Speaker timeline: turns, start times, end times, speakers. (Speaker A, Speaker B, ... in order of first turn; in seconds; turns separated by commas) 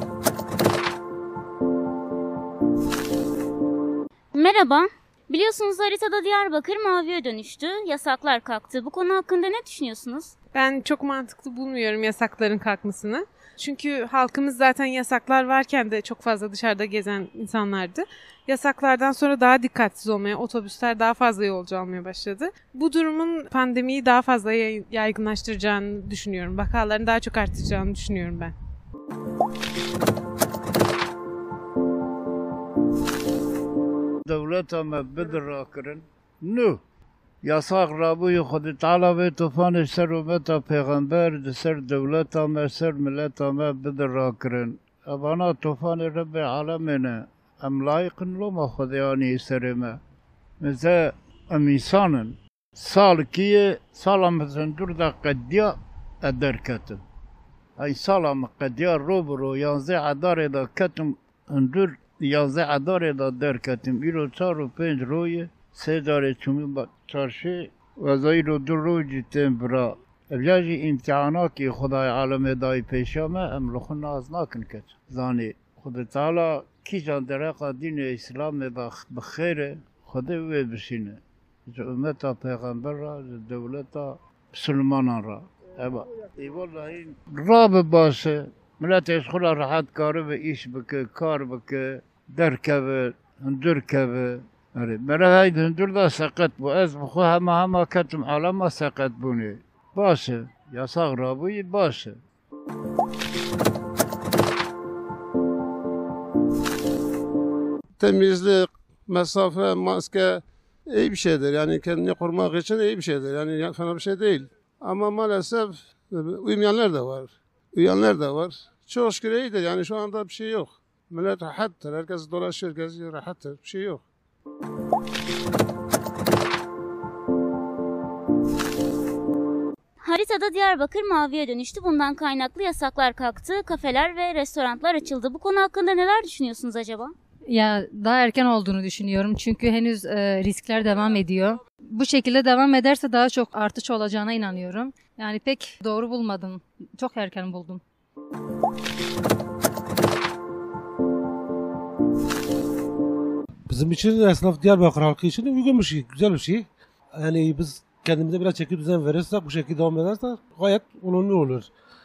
Speaker A: 4.3-10.3, Speaker B: 10.5-28.6, Speaker C: 34.2-36.8, Speaker C: 37.4-50.0, Speaker C: 50.6-57.0, Speaker C: 57.8-102.2, Speaker D: 108.0-124.0, Speaker A: 130.0-137.1, Speaker E: 137.4-147.8, Speaker F: 153.7-156.7, Speaker F: 157.2-161.7